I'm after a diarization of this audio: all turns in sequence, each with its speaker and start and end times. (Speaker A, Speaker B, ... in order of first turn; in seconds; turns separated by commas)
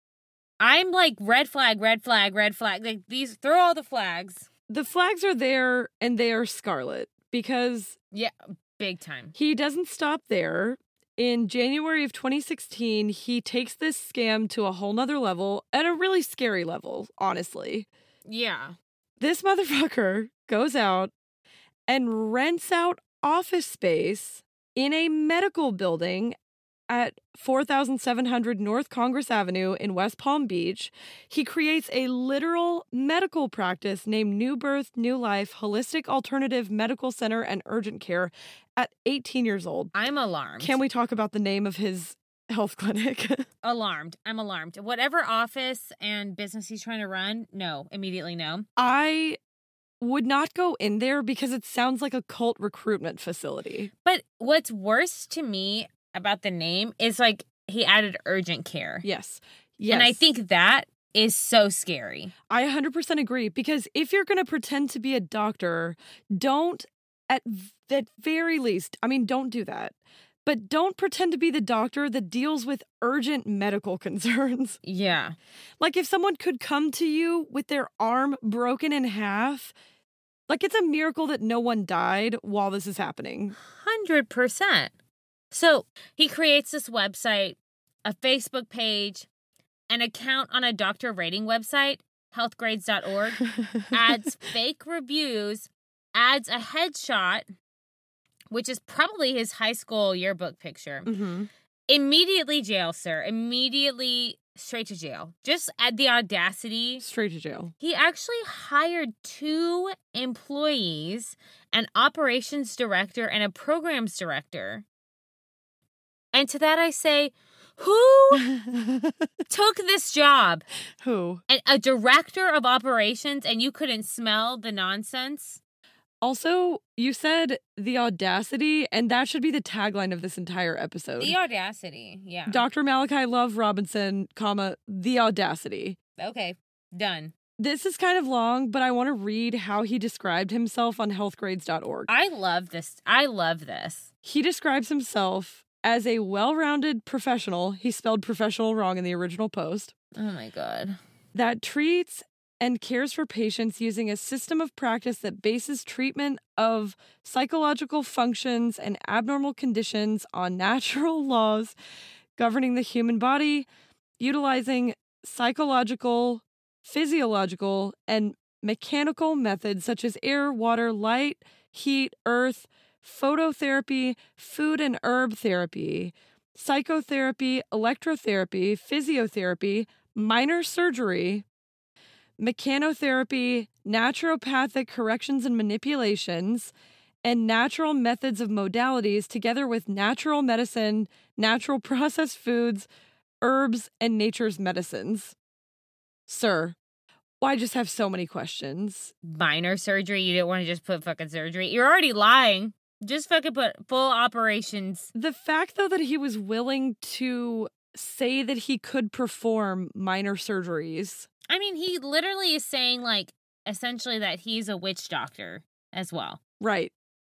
Speaker A: 0.6-4.5, Speaker B: 4.7-8.0, Speaker A: 8.1-9.3, Speaker B: 9.3-17.9, Speaker A: 18.2-18.7, Speaker B: 19.2-21.1, Speaker B: 21.9-26.3, Speaker B: 26.9-39.9, Speaker A: 39.9-40.8, Speaker B: 40.6-43.5, Speaker A: 43.6-48.6, Speaker B: 48.8-49.4, Speaker B: 50.0-53.9, Speaker A: 54.0-59.0, Speaker B: 59.0-60.2, Speaker A: 59.9-62.3, Speaker B: 62.5-74.8, Speaker A: 74.8-75.4, Speaker B: 75.8-79.7, Speaker B: 80.5-83.5, Speaker A: 83.6-84.9, Speaker A: 85.5-89.3, Speaker A: 89.9-97.5, Speaker A: 98.5-101.2, Speaker B: 101.0-101.5, Speaker A: 101.9-107.0, Speaker B: 107.0-107.7, Speaker A: 107.8-114.8, Speaker A: 116.3-118.5, Speaker B: 118.3-119.2, Speaker A: 119.5-120.6, Speaker B: 121.0-121.4, Speaker A: 121.5-125.6, Speaker B: 126.2-131.3, Speaker A: 131.2-132.6, Speaker B: 132.5-136.0, Speaker A: 136.2-137.3, Speaker B: 137.6-142.1, Speaker A: 142.1-144.1, Speaker B: 144.2-149.9, Speaker A: 150.2-151.0, Speaker B: 151.3-161.8, Speaker B: 162.4-163.7, Speaker B: 164.2-181.4, Speaker B: 182.4-186.7, Speaker B: 187.2-192.9, Speaker B: 193.4-195.3, Speaker B: 196.3-196.8, Speaker B: 197.4-199.1, Speaker A: 199.2-205.1, Speaker B: 205.1-211.3, Speaker A: 211.5-216.4, Speaker B: 216.6-216.9